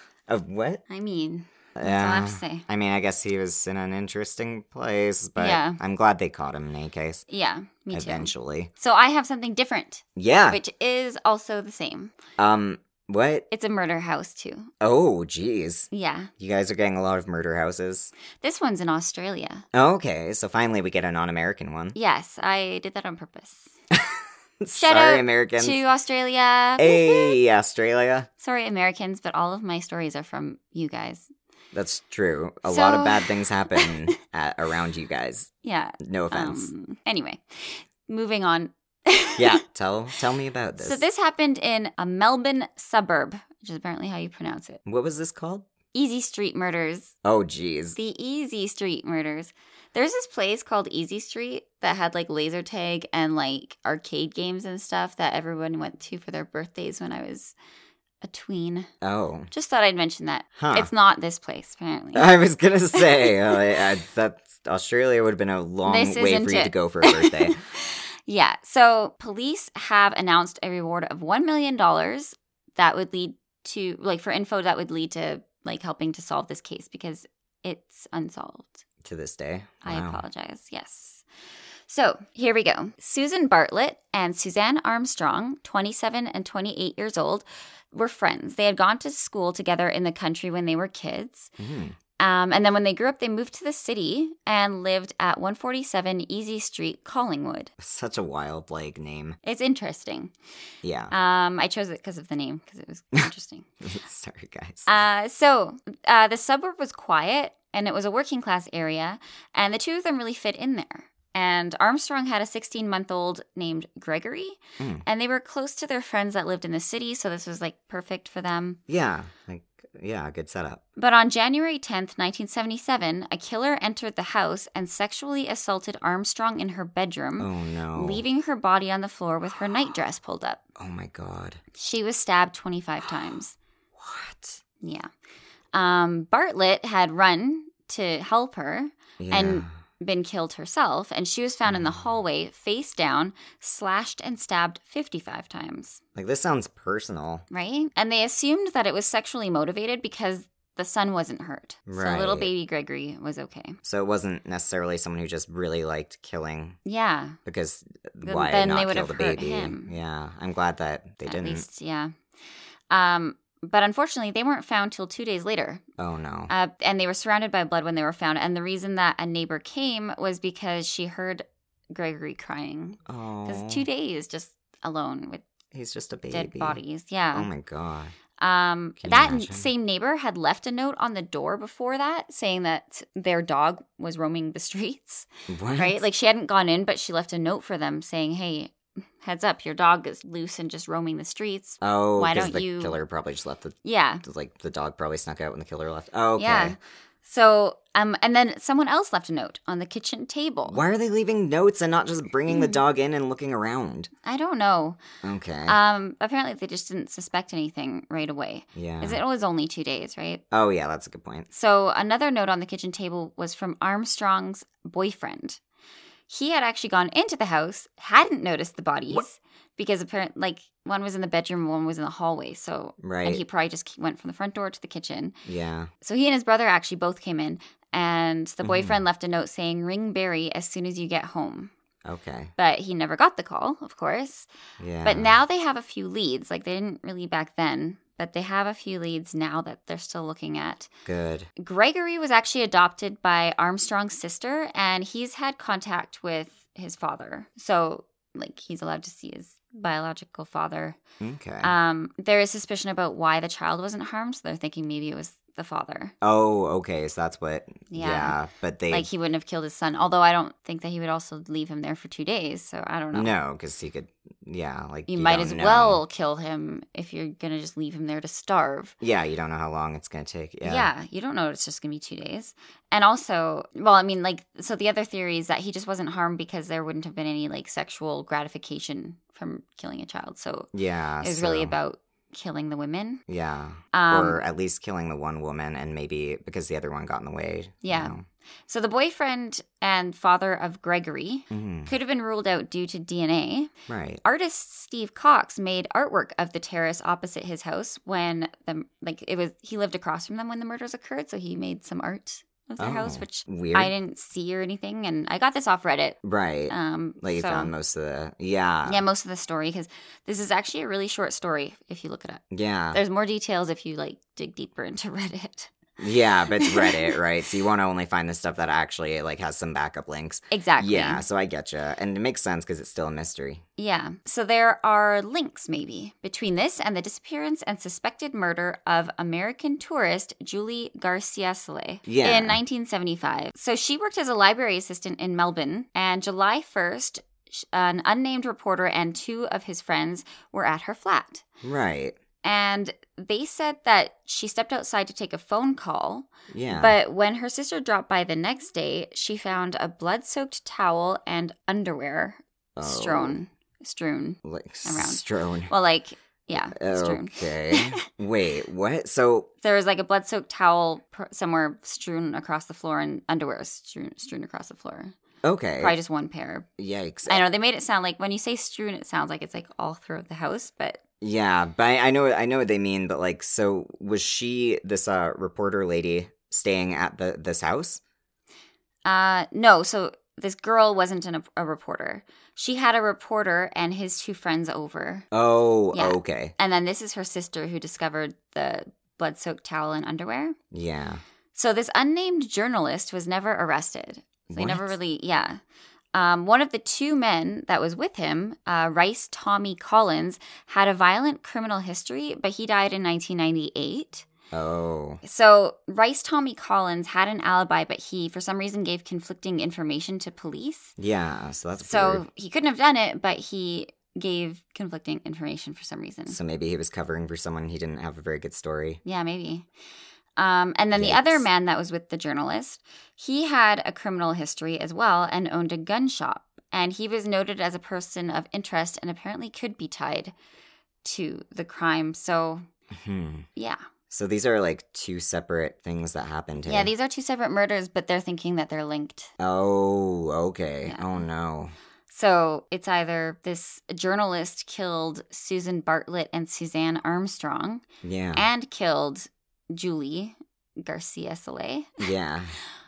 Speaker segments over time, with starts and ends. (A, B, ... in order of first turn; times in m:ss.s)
0:00.3-0:00.8 A
0:00.9-0:02.6 B
0:01.8-0:07.2 A
0:05.4-0:05.8 B
0:07.3-0:12.1 B
0:07.9-0:08.7 A
0:10.2-0:10.6 A
0:12.4-0:13.4 A
0:13.5-0:14.7 B
0:14.8-0:18.1 A
0:15.9-0:16.3 B
0:18.4-0:19.6 B
0:19.7-0:22.0 A
0:21.9-0:23.8 B
0:23.9-0:25.8 A
0:24.7-0:27.4 B
0:26.8-0:28.3 A
0:28.4-0:31.3 B
0:31.7-0:36.7 A
0:32.6-0:34.2 B
0:35.6-0:39.6 B
0:39.4-0:41.0 A
0:40.8-0:44.8 B
0:44.8-0:45.6 A
0:45.9-0:47.1 B
0:47.2-0:48.0 A
0:48.0-0:57.6 B
0:58.2-0:58.9 B
0:59.0-0:59.5 A
0:59.5-1:02.3 B
1:00.6-1:00.9 A
1:02.1-1:07.6 A
1:02.9-1:03.6 B
1:05.8-1:18.8 B
1:19.0-1:20.2 A
1:19.8-1:21.2 B
1:21.9-1:31.5 B
1:31.6-1:32.0 A
1:32.2-1:37.7 B
1:37.8-1:39.4 A
1:39.4-1:40.3 B
1:40.8-1:41.1 A
1:41.1-1:43.7 B
1:43.8-1:44.9 A
1:44.9-1:58.8 B
1:54.8-1:55.0 A
1:58.9-2:00.8 A
2:01.0-2:10.6 B
2:07.4-2:08.2 A
2:10.8-2:11.6 A
2:11.8-2:13.6 B
2:14.0-2:14.6 A
2:14.8-2:15.1 B
2:15.7-2:26.0 B
2:19.2-2:19.7 A
2:26.1-2:27.4 A
2:27.5-2:33.8 B
2:31.9-2:32.5 A
2:33.8-2:36.8 A
2:36.8-2:37.4 B
2:37.4-2:41.6 A
2:38.2-2:39.9 B
2:41.2-2:42.1 B
2:42.9-2:45.8 B
2:46.0-2:46.5 A
2:46.5-2:55.4 B
2:53.1-2:53.8 A
2:55.7-2:56.8 A
2:56.3-2:57.5 B
2:57.3-2:58.1 A
2:58.4-3:13.0 B
2:59.0-2:59.7 A
3:05.5-3:06.0 A
3:11.8-3:16.8 A
3:13.8-3:14.2 B
3:16.4-3:20.8 B
3:20.7-3:24.1 A
3:22.5-3:22.8 B
3:24.2-3:25.0 B
3:25.2-3:25.8 A
3:25.6-3:30.4 B
3:28.7-3:29.2 A
3:30.5-3:31.5 A
3:31.5-3:35.6 B
3:36.3-3:45.4 B
3:43.0-3:43.4 A
3:45.4-3:45.9 A
3:46.0-3:51.7 B
3:48.6-3:49.0 A
3:52.0-3:52.5 A
3:52.6-3:54.5 B
3:54.8-3:55.4 A
3:55.0-4:00.9 B
4:01.0-4:01.5 A
4:01.6-4:11.0 B
4:11.2-4:11.7 A
4:11.6-4:16.1 B
4:16.2-4:19.1 A
4:17.9-4:18.4 B
4:18.9-4:23.3 B
4:23.1-4:26.0 A
4:25.1-4:28.9 B
4:29.0-4:30.9 A
4:30.6-4:40.7 B
4:40.7-4:41.7 A
4:41.2-4:43.2 B
4:43.3-4:48.2 A
4:43.9-4:44.4 B
4:47.8-4:48.1 B
4:48.7-4:53.7 B
4:51.5-4:51.9 A
4:53.9-4:54.2 A
4:54.2-5:06.2 B
5:02.8-5:03.9 A
5:06.2-5:09.0 A
5:06.7-5:07.7 B
5:08.8-5:12.4 B
5:12.5-5:13.0 A
5:12.9-5:15.7 B
5:16.0-5:23.6 A
5:16.6-5:17.2 B
5:20.5-5:21.2 B
5:23.8-5:41.4 B
5:32.1-5:32.6 A
5:41.6-5:42.1 A
5:42.4-5:58.0 B
5:46.5-5:47.0 A
5:52.8-5:53.4 A
5:54.4-5:55.7 A
5:56.5-5:59.5 A
5:59.6-6:05.1 B
6:05.4-6:06.0 A
6:05.8-6:06.7 B
6:06.8-6:07.4 A
6:07.3-6:11.0 B
6:11.2-6:18.0 A
6:19.0-6:25.3 B
6:25.3-6:26.5 A
6:25.9-6:30.6 B
6:30.7-6:31.2 A
6:31.5-6:35.6 B
6:34.5-6:35.0 A
6:36.1-6:44.3 B
6:44.5-6:45.2 A
6:45.2-6:50.9 B
6:51.0-6:52.2 A
6:51.8-6:56.4 B
6:56.3-6:59.0 A
6:59.0-6:59.7 B
7:00.4-7:10.3 B
7:00.9-7:01.4 A
7:11.0-7:12.6 B
7:12.9-7:13.5 A
7:13.6-7:13.8 B
7:14.1-7:16.9 A
7:16.6-7:19.3 B
7:19.4-7:21.7 A
7:20.8-7:21.2 B
7:22.1-7:27.8 B
7:28.0-7:28.5 A
7:28.3-7:32.0 B
7:32.0-7:32.5 A